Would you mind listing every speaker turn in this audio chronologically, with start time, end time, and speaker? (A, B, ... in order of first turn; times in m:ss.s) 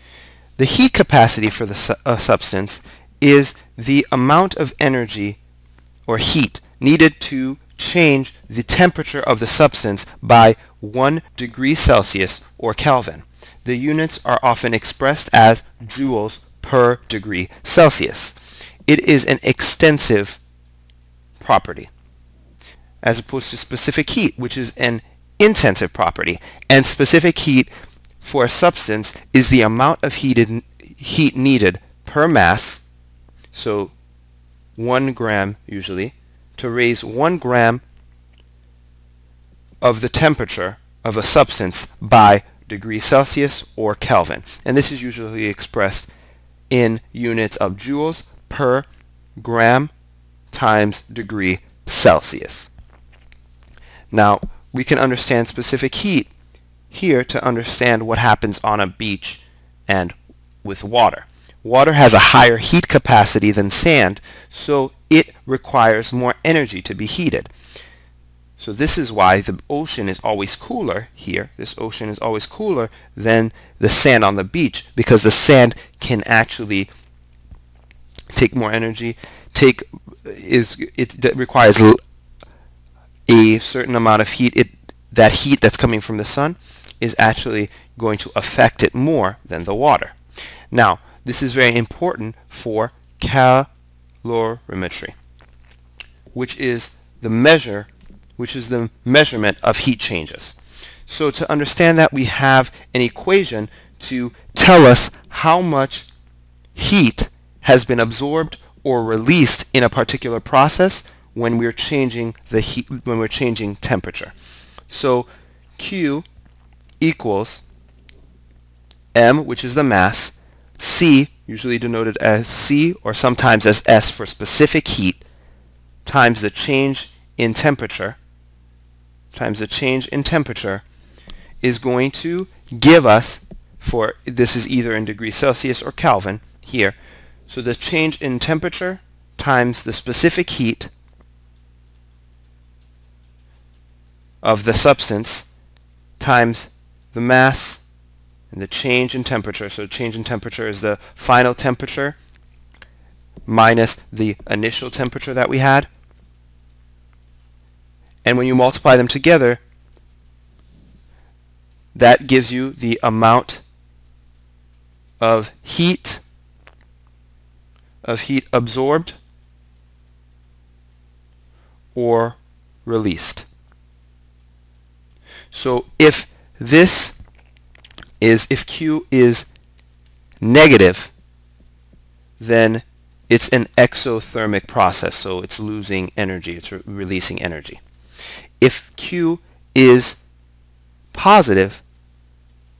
0:00.6-0:05.4 A
0:06.1-0:18.4 A
0:18.9-0:20.4 A
0:21.4-0:21.9 A
0:23.0-0:27.7 A
0:28.2-0:32.8 A
0:33.5-0:33.9 A
0:34.8-0:37.8 A
0:39.8-0:46.1 A
0:46.7-0:48.9 A
0:49.4-0:49.9 A
0:50.5-0:52.7 A
0:54.1-0:56.3 A
0:56.9-1:07.5 A
1:08.6-1:16.9 A
1:18.3-1:22.0 A
1:23.3-1:30.1 A
1:30.7-1:33.7 A
1:34.2-1:35.1 A
1:36.3-1:40.6 A
1:41.1-1:46.1 A
1:46.7-1:54.3 A
1:54.9-1:56.2 A
1:57.0-1:57.6 A
1:59.1-2:05.2 A
2:06.0-2:08.2 A
2:09.3-2:10.8 A
2:11.6-2:17.0 A
2:17.5-2:20.9 A
2:24.4-2:25.5 A
2:26.2-2:27.8 A
2:28.5-2:32.2 A
2:33.5-2:35.9 A
2:38.2-2:39.6 A
2:41.9-2:43.6 A
2:45.2-2:46.2 A
2:48.0-2:49.2 A
2:51.9-2:53.5 A
2:55.5-2:57.2 A
2:58.2-2:59.5 A
3:00.4-3:01.1 A
3:02.4-3:07.8 A
3:08.6-3:10.2 A
3:11.1-3:11.8 A